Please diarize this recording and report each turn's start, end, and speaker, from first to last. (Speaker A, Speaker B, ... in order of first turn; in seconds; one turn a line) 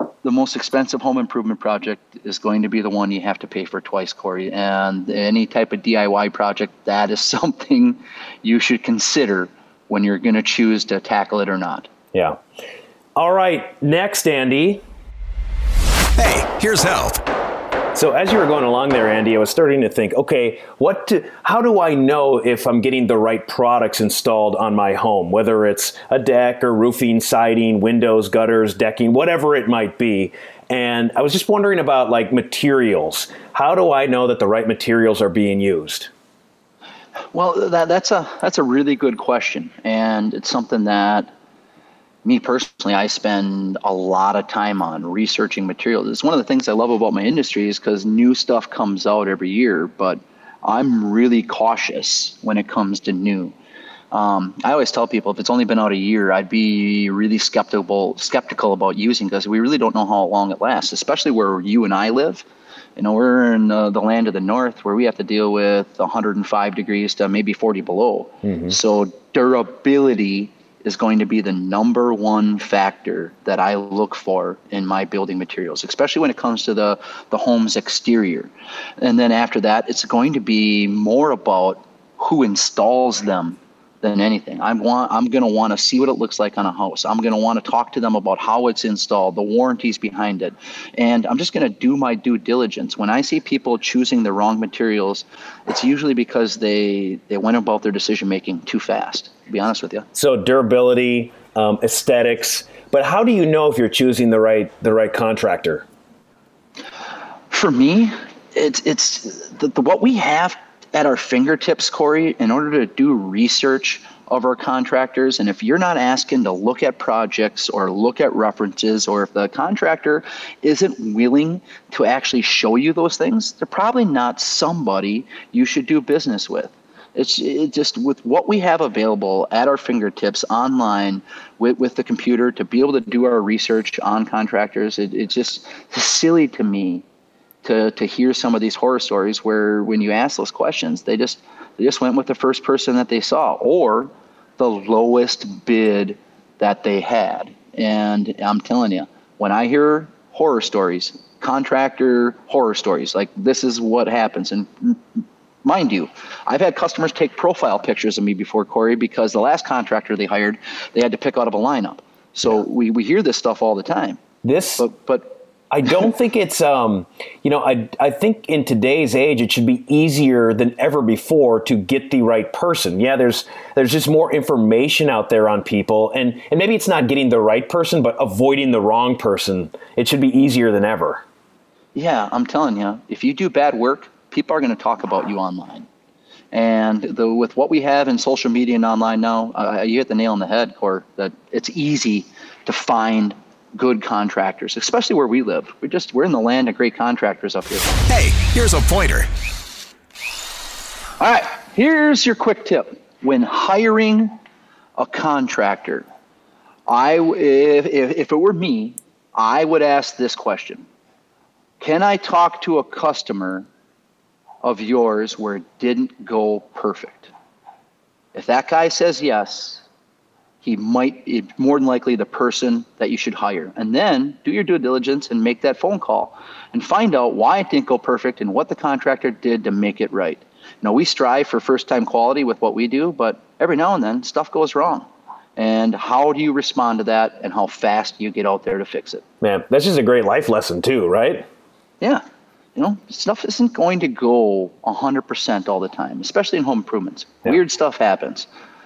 Speaker A: 0.2-11.9
Speaker B: 12.1-12.4
Speaker B: 13.2-14.8
Speaker C: 16.2-17.2
Speaker B: 17.9-36.1
Speaker A: 37.3-41.3
Speaker A: 42.2-53.5
Speaker A: 54.1-62.5
Speaker A: 63.0-100.1
Speaker B: 100.2-105.9
Speaker A: 107.5-137.0
Speaker A: 137.6-164.2
Speaker B: 164.4-164.9
Speaker A: 164.8-165.9
Speaker B: 165.7-181.2
Speaker A: 181.9-185.9
Speaker A: 186.5-197.9
Speaker C: 198.1-199.3
Speaker A: 201.2-204.4
Speaker A: 205.0-206.1
Speaker A: 206.9-210.9
Speaker A: 211.8-213.7
Speaker A: 214.6-217.3
Speaker A: 218.3-219.8
Speaker A: 220.6-239.2
Speaker B: 239.4-241.5
Speaker A: 242.8-248.5